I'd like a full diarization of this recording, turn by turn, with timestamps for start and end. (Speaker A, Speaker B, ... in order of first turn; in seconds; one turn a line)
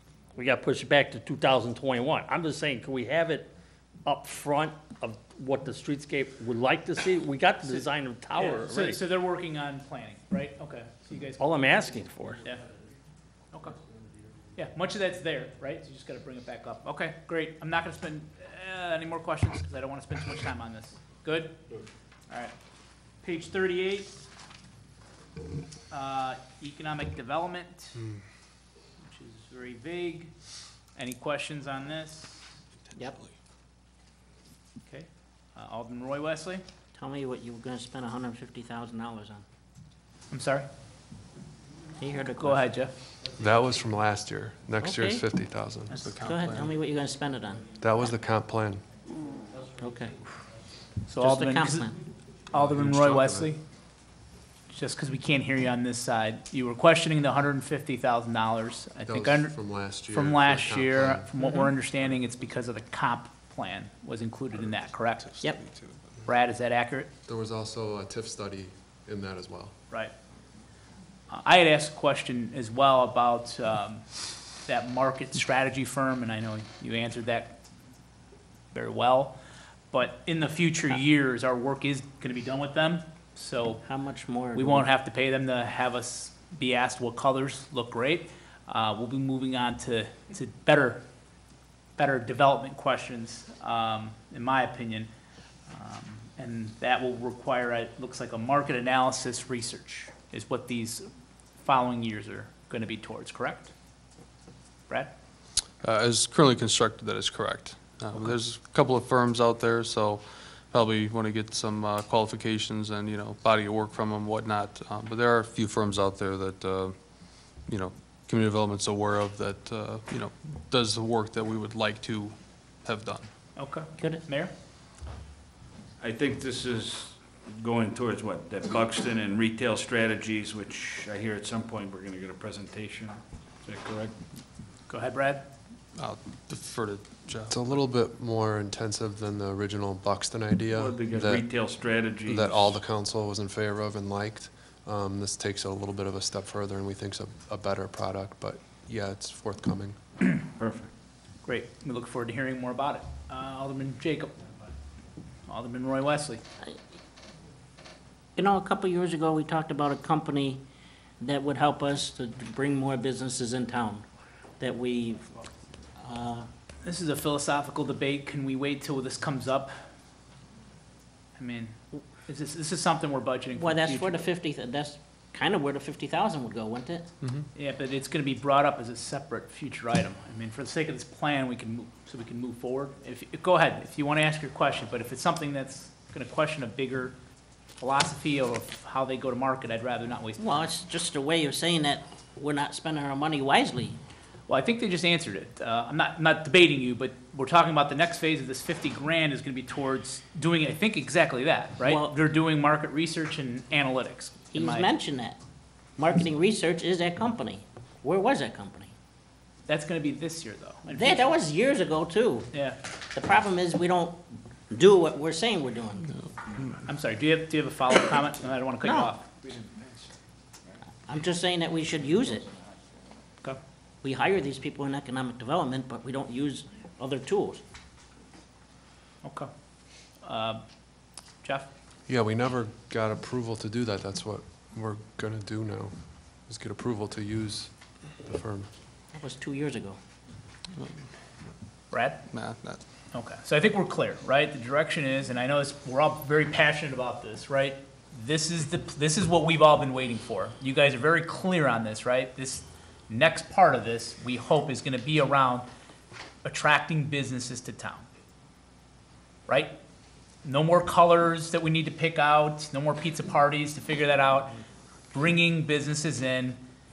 Speaker A: 0.3-3.5
Speaker A: 4.0-9.0
Speaker B: 7.7-11.4
Speaker A: 11.4-12.4
Speaker B: 14.5-21.6
Speaker B: 22.3-22.5
Speaker B: 23.2-24.1
Speaker B: 25.9-28.0
Speaker B: 29.0-30.3
Speaker B: 30.9-32.5
Speaker B: 34.8-36.6
Speaker C: 36.9-39.4
Speaker B: 40.3-40.6
Speaker C: 42.0-42.6
Speaker B: 42.4-42.9
Speaker D: 43.4-46.0
Speaker C: 44.8-45.2
Speaker E: 46.0-46.7
Speaker C: 46.2-47.8
Speaker D: 47.8-48.8
Speaker C: 49.8-50.1
Speaker B: 51.1-51.9
Speaker C: 51.2-51.9
Speaker B: 52.5-53.6
Speaker D: 52.5-53.5
Speaker B: 54.7-59.5
Speaker D: 59.0-61.3
Speaker B: 60.1-65.4
Speaker E: 65.5-66.0
Speaker B: 66.2-67.1
Speaker D: 67.3-69.7
Speaker B: 71.3-74.1
Speaker B: 74.6-77.6
Speaker B: 78.7-79.4
Speaker B: 79.9-83.8
Speaker C: 83.8-84.9
Speaker B: 84.5-91.0
Speaker B: 92.0-95.1
Speaker B: 95.7-101.1
Speaker B: 101.6-103.7
Speaker E: 105.8-123.3
Speaker B: 123.5-124.5
Speaker C: 124.0-124.2
Speaker F: 126.0-134.2
Speaker B: 134.9-135.5
Speaker E: 135.9-137.5
Speaker D: 137.5-141.4
Speaker F: 140.7-142.7
Speaker D: 142.2-149.9
Speaker F: 150.6-150.9
Speaker B: 151.4-154.4
Speaker B: 155.5-156.4
Speaker C: 158.3-160.6
Speaker C: 161.2-164.0
Speaker C: 164.6-165.3
Speaker C: 166.0-166.5
Speaker B: 166.8-169.7
Speaker B: 171.4-174.2
Speaker C: 173.6-177.1
Speaker D: 177.2-177.5
Speaker B: 177.5-187.2
Speaker B: 187.8-190.5
Speaker C: 190.4-194.0
Speaker B: 194.5-204.9
Speaker C: 201.8-202.1
Speaker C: 204.5-205.4
Speaker C: 206.0-208.9
Speaker B: 209.7-211.3
Speaker C: 210.9-212.5
Speaker B: 212.5-212.8
Speaker C: 213.1-216.1
Speaker E: 216.1-216.8
Speaker B: 216.8-219.3
Speaker C: 218.8-219.1
Speaker F: 219.4-220.1
Speaker C: 221.1-222.4
Speaker C: 224.0-227.6
Speaker B: 229.2-229.5
Speaker B: 230.2-230.6
Speaker B: 231.4-231.7
Speaker D: 232.1-238.7
Speaker C: 239.1-240.0
Speaker B: 241.9-242.2
Speaker E: 242.3-242.8
Speaker B: 243.1-255.7
Speaker B: 256.4-258.1
Speaker B: 259.5-259.7
Speaker B: 260.4-264.6
Speaker B: 265.1-266.6